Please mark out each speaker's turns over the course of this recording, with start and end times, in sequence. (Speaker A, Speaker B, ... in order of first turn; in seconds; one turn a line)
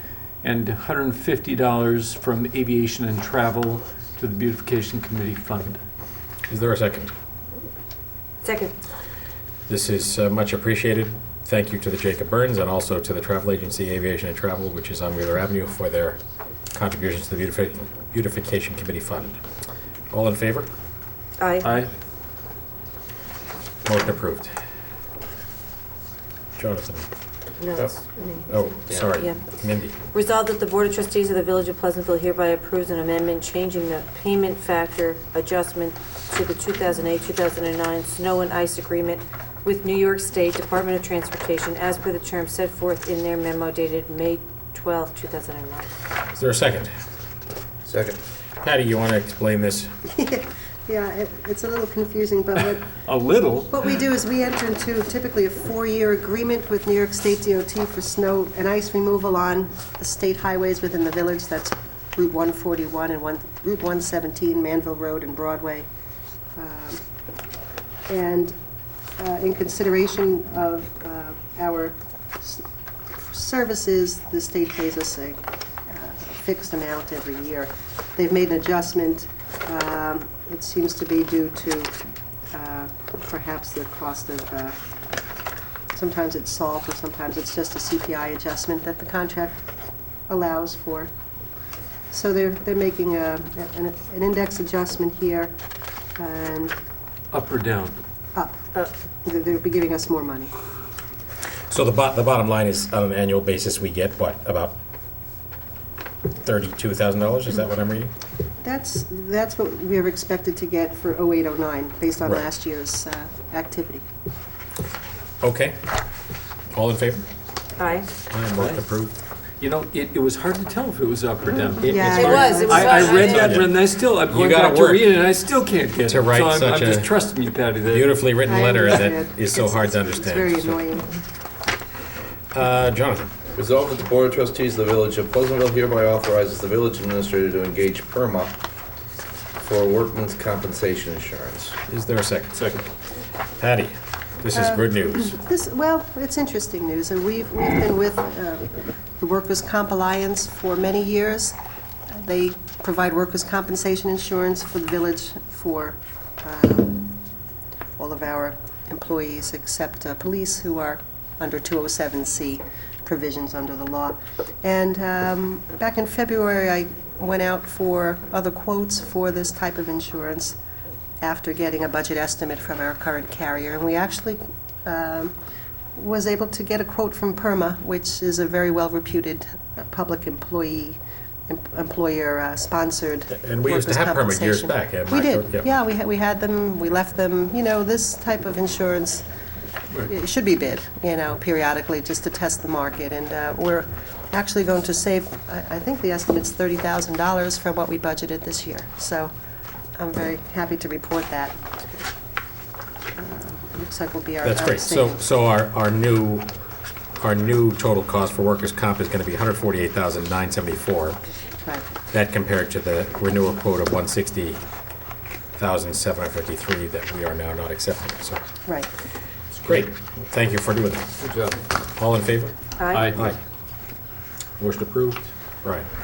Speaker A: 0.4-5.8
Speaker B: 6.5-7.1
Speaker C: 8.4-8.7
Speaker B: 9.7-16.2
Speaker B: 16.7-19.4
Speaker B: 20.1-20.7
Speaker C: 21.4-21.7
Speaker A: 21.6-21.9
Speaker B: 23.9-24.5
Speaker B: 26.6-27.1
Speaker C: 27.6-28.5
Speaker B: 28.5-29.9
Speaker D: 28.9-29.1
Speaker C: 30.1-45.9
Speaker B: 46.3-46.9
Speaker D: 47.9-48.2
Speaker B: 48.6-49.9
Speaker E: 50.1-52.9
Speaker A: 53.0-53.8
Speaker E: 53.7-65.9
Speaker E: 66.6-67.0
Speaker E: 68.1-68.5
Speaker E: 69.2-72.6
Speaker E: 73.2-81.9
Speaker E: 82.5-84.8
Speaker E: 85.9-89.6
Speaker E: 90.3-91.1
Speaker E: 92.1-95.5
Speaker E: 96.2-96.8
Speaker A: 97.3-98.0
Speaker E: 98.3-100.5
Speaker B: 101.7-104.8
Speaker B: 106.4-108.1
Speaker E: 108.6-114.0
Speaker B: 115.4-115.9
Speaker B: 116.7-117.2
Speaker C: 117.8-118.1
Speaker B: 118.3-119.1
Speaker A: 119.6-128.2
Speaker B: 121.8-122.5
Speaker E: 121.8-123.0
Speaker C: 122.1-123.6
Speaker B: 123.1-123.8
Speaker B: 124.3-125.1
Speaker B: 126.1-127.2
Speaker B: 127.8-130.9
Speaker E: 128.4-131.1
Speaker B: 132.5-133.3
Speaker D: 133.6-138.6
Speaker D: 139.6-141.8
Speaker B: 141.9-142.6
Speaker A: 142.6-142.8
Speaker B: 143.6-145.3
Speaker E: 144.6-151.6
Speaker E: 152.1-157.2
Speaker E: 158.0-170.6
Speaker E: 171.2-175.3
Speaker E: 176.0-189.3
Speaker B: 183.3-185.7
Speaker E: 190.0-199.3
Speaker E: 200.0-201.6
Speaker E: 203.2-205.2
Speaker B: 204.4-206.5
Speaker B: 207.2-211.2
Speaker B: 212.1-214.6
Speaker B: 215.6-218.4
Speaker B: 219.5-221.2
Speaker A: 221.2-221.6
Speaker B: 222.0-223.4
Speaker C: 222.8-223.1
Speaker A: 222.9-223.3
Speaker B: 224.6-225.9